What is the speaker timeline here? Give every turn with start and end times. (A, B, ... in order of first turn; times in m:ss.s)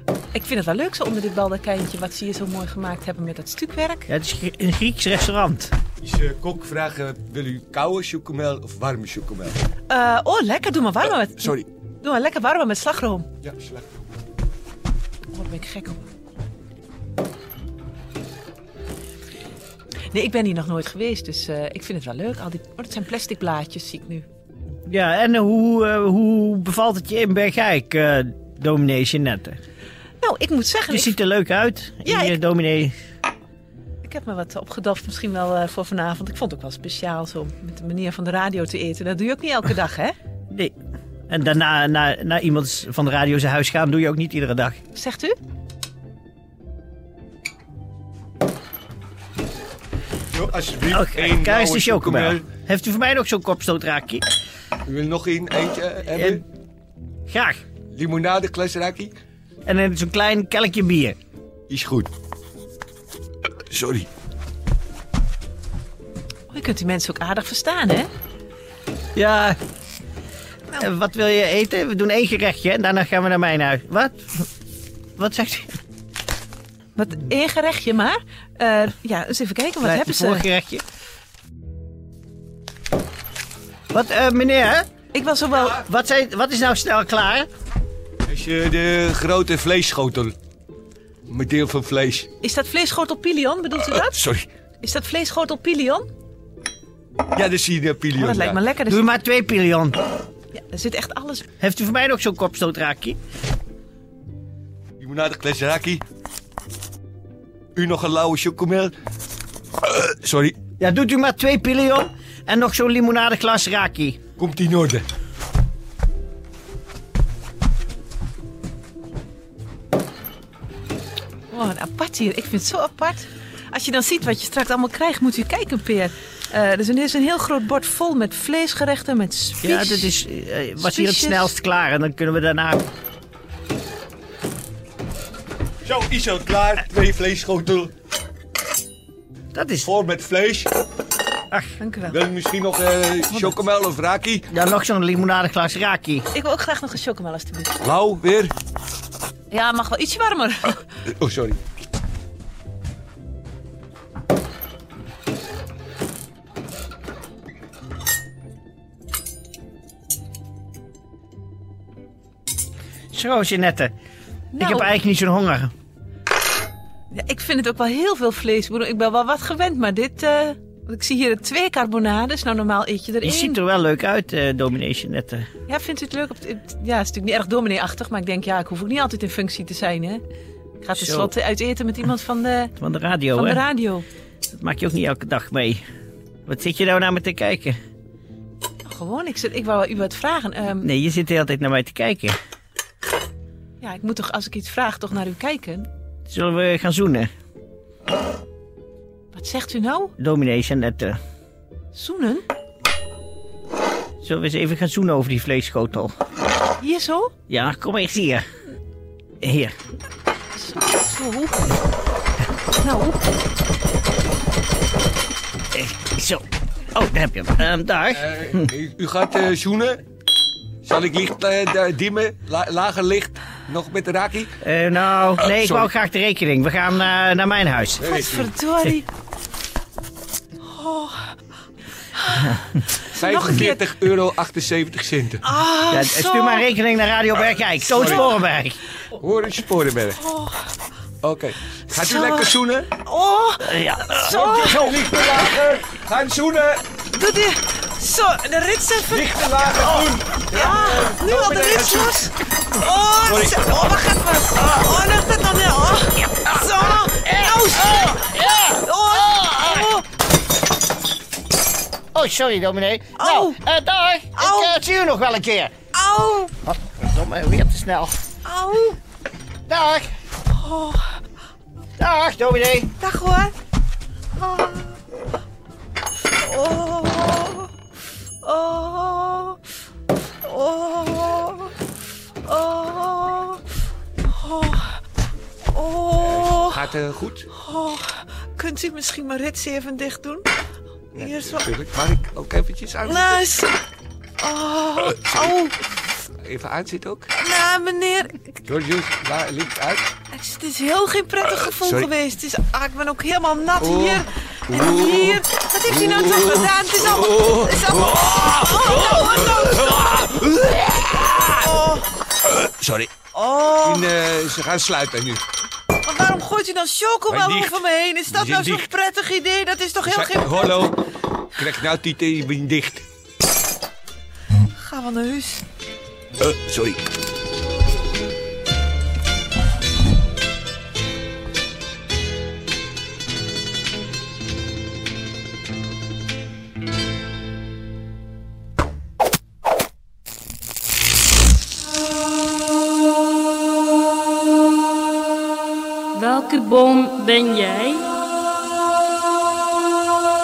0:00.3-0:04.1 A
0:04.1-0:05.7 B
0:06.0-0:09.6 C
0:09.9-0:13.3 A
0:11.4-0:11.6 C
0:13.4-0:14.0 C
0:15.3-0:16.0 A
0:20.1-0:24.2 A
0:24.9-0:29.6 B
0:30.2-0:31.1 A
0:30.9-0:32.9 B
0:32.0-0:32.4 A
0:34.0-0:40.1 A
0:41.3-0:44.8 B
0:44.9-0:45.4 A
0:50.3-0:52.4 C
0:50.9-0:54.2 B
0:54.8-0:56.4 C
0:56.1-0:56.4 B
0:57.3-0:57.6 B
0:57.9-0:59.1 C
0:59.6-1:01.2 B
1:01.7-1:02.1 C
1:03.7-1:04.1 C
1:06.5-1:08.1 A
1:09.1-1:09.6 B
1:10.7-1:14.5 B
1:15.2-1:15.7 B
1:16.9-1:20.4 A
1:19.8-1:20.8 B
1:23.9-1:24.8 B
1:25.1-1:25.8 A
1:25.7-1:27.5 B
1:28.2-1:30.3 C
1:31.3-1:32.3 C
1:32.4-1:34.2 A
1:33.9-1:34.5 C
1:34.8-1:36.1 A
1:37.3-1:38.6 C
1:38.1-1:39.0 A
1:38.9-1:40.0 B
1:40.5-1:41.5 A
1:41.6-1:43.2 B
1:45.0-1:46.0 C
1:47.8-1:48.9 C
1:49.8-1:50.6 C
1:50.8-1:54.2 B
1:54.4-1:55.0 C
2:01.5-2:10.1 A
2:09.6-2:12.8 B
2:10.8-2:11.5 A
2:15.8-2:17.9 C
2:19.5-2:19.9 B
2:19.8-2:20.7 C
2:21.8-2:22.2 A
2:22.1-2:24.5 C
2:24.5-2:26.2 B
2:26.3-2:27.8 A
2:27.8-2:28.5 C
2:29.5-2:30.8 A
2:31.2-2:31.6 C
2:43.1-2:43.9 B
2:44.5-2:44.9 A
2:44.6-2:45.7 B
2:47.1-2:53.6 A
2:53.2-2:55.5 B
2:55.7-3:00.2 A
3:00.8-3:02.7 A
3:00.9-3:01.3 B
3:02.8-3:03.6 B
3:03.3-3:04.0 A
3:04.5-3:05.8 B
3:06.4-3:07.8 B
3:08.8-3:10.9 A
3:10.8-3:12.4 B
3:13.8-3:15.9 A
3:16.3-3:17.3 B
3:19.3-3:20.1 A
3:20.2-3:21.2 B
3:21.9-3:22.4 A
3:24.2-3:26.1 B
3:26.8-3:27.3 A
3:27.5-3:28.4 B
3:29.4-3:29.7 B
3:30.5-3:31.7 A
3:32.8-3:33.2 A
3:35.7-3:38.7 B
3:38.1-3:40.0 C
3:40.8-3:44.5 C
3:44.6-3:48.1 B
3:45.4-3:45.9 C
3:48.0-3:48.5 C
3:48.0-3:49.0 A
3:50.7-3:51.2 A
3:52.2-3:53.9 A
3:53.1-3:55.4 C
3:55.4-3:56.6 A
3:55.9-3:58.8 B
3:57.9-3:58.3 C
3:59.2-4:00.2 C
4:00.2-4:00.6 A
4:01.2-4:02.9 C
4:01.9-4:05.0 A
4:03.6-4:04.2 B
4:04.2-4:06.8 C
4:07.1-4:20.0 A
4:09.1-4:12.3 C
4:13.1-4:13.6 C
4:17.3-4:18.8 B
4:22.1-4:25.7 B
4:23.2-4:23.6 A
4:24.4-4:24.8 A
4:25.9-4:26.5 A
4:26.6-4:28.2 B
4:28.4-4:29.0 A
4:29.7-4:30.1 B
4:30.5-4:31.0 A
4:32.0-4:32.9 B
4:33.0-4:33.5 A
4:34.4-4:34.9 A
4:36.4-4:37.7 A
4:38.4-4:39.6 A
4:40.4-4:41.7 A
4:42.4-4:43.6 A
4:44.3-4:45.0 A
4:45.7-4:46.8 A
4:46.2-4:47.5 C
4:47.5-4:50.5 A
4:51.1-4:51.7 A
4:51.1-4:53.4 C
4:53.0-4:53.7 A
4:54.4-4:55.7 A
4:55.0-4:55.6 C
4:56.4-4:57.3 C
4:57.4-4:58.5 A
4:58.6-5:00.1 C
5:00.3-5:10.4 A
5:01.4-5:02.1 C
5:03.8-5:11.7 C
5:11.5-5:12.0 A
5:12.4-5:13.1 C
5:13.3-5:14.1 A
5:13.8-5:15.4 C
5:16.0-5:20.9 A
5:17.3-5:18.9 C
5:20.0-5:21.0 C
5:21.6-5:23.0 C
5:24.8-5:25.6 A
5:26.4-5:27.0 C
5:46.1-5:48.1 D